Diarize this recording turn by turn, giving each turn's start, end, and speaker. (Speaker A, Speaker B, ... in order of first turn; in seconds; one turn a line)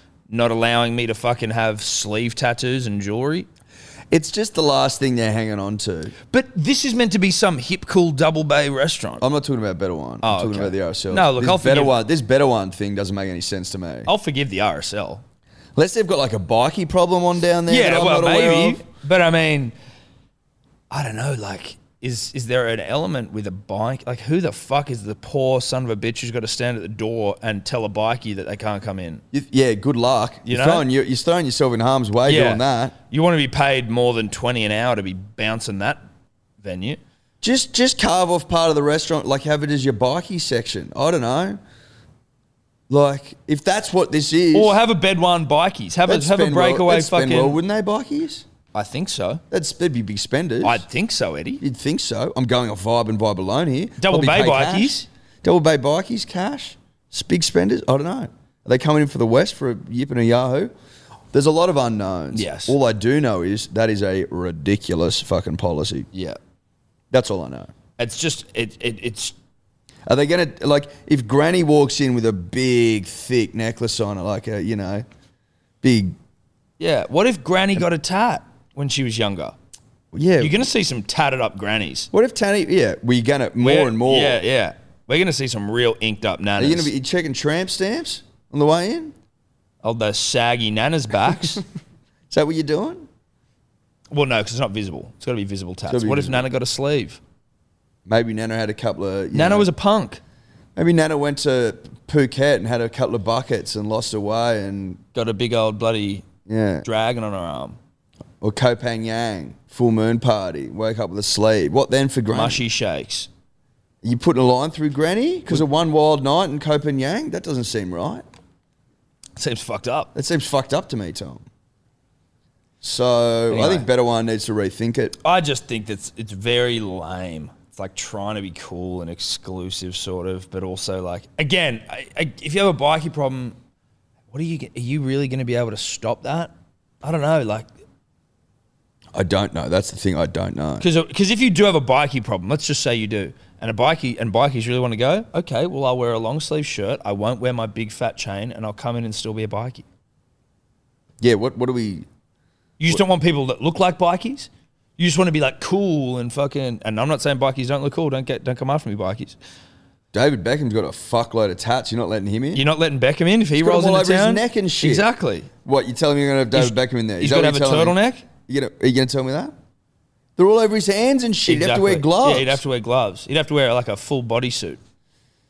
Speaker A: 0.3-3.5
Speaker B: 4.1-6.1
Speaker A: 6.3-9.2
Speaker B: 9.2-14.1
Speaker A: 10.2-11.9
Speaker A: 14.1-15.2
Speaker B: 15.8-18.8
Speaker A: 17.7-19.7
Speaker A: 20.9-29.2
Speaker B: 29.3-32.9
Speaker A: 30.4-30.9
Speaker A: 32.2-36.0
Speaker A: 36.6-37.0
Speaker B: 37.4-41.6
Speaker B: 42.9-44.8
Speaker A: 44.5-47.6
Speaker B: 46.1-48.5
Speaker A: 48.7-49.4
Speaker B: 49.5-50.8
Speaker A: 50.6-51.6
Speaker B: 51.6-60.7
Speaker A: 54.0-55.1
Speaker B: 61.3-66.1
Speaker A: 62.3-62.8
Speaker A: 66.1-66.4
Speaker B: 67.1-67.7
Speaker A: 68.0-69.3
Speaker B: 70.1-75.0
Speaker B: 75.8-76.2
Speaker A: 76.8-79.5
Speaker B: 80.1-80.6
Speaker A: 80.4-82.1
Speaker B: 82.1-84.4
Speaker A: 83.6-86.9
Speaker B: 86.6-89.1
Speaker A: 89.8-91.6
Speaker B: 92.3-93.1
Speaker A: 94.1-97.2
Speaker B: 95.9-96.4
Speaker B: 98.0-99.7
Speaker A: 99.3-100.2
Speaker B: 100.8-105.0
Speaker A: 105.1-106.2
Speaker B: 106.5-106.8
Speaker A: 106.8-107.8
Speaker B: 108.4-112.6
Speaker A: 112.3-113.3
Speaker B: 114.0-118.2
Speaker A: 119.4-120.1
Speaker B: 120.1-121.4
Speaker B: 122.8-125.2
Speaker A: 123.5-123.9
Speaker A: 125.2-133.6
Speaker A: 134.3-136.5
Speaker A: 137.0-137.7
Speaker B: 139.1-140.9
Speaker A: 140.8-149.8
Speaker B: 151.2-152.1
Speaker A: 152.8-159.4
Speaker B: 160.1-162.6
Speaker A: 162.5-165.5
Speaker B: 163.6-165.1
Speaker B: 165.6-169.5
Speaker A: 166.5-168.2
Speaker B: 170.4-172.6
Speaker A: 171.4-174.8